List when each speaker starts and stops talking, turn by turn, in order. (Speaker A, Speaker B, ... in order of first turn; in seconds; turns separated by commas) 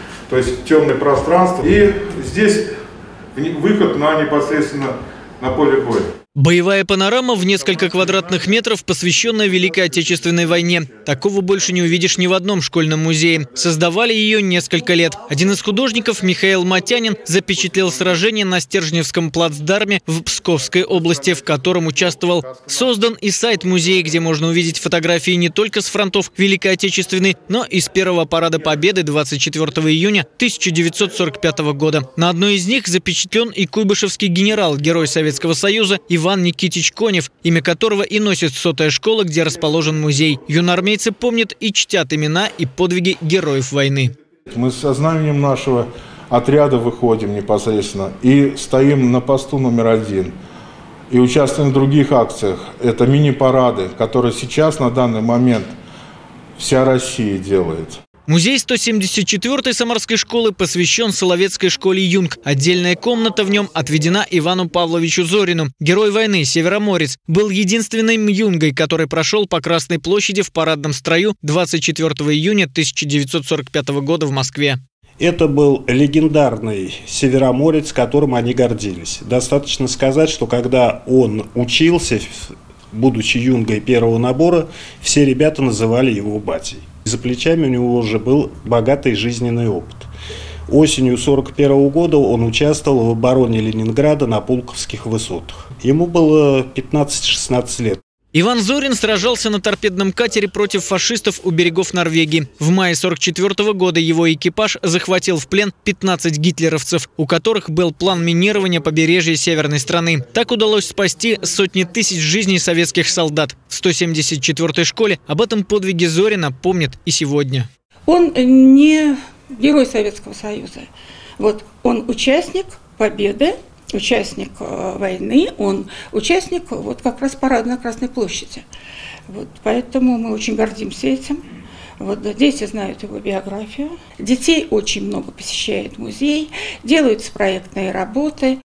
Speaker A: 0.3-2.8, Speaker A: 3.4-6.1, Speaker B: 6.4-44.1, Speaker A: 44.5-50.4, Speaker A: 51.1-55.7, Speaker A: 56.6-58.0, Speaker B: 58.3-74.8, Speaker C: 75.2-90.1, Speaker C: 90.7-98.0, Speaker B: 98.3-117.7, Speaker D: 118.1-120.9, Speaker D: 121.4-128.7, Speaker D: 129.3-131.4, Speaker D: 132.0-138.6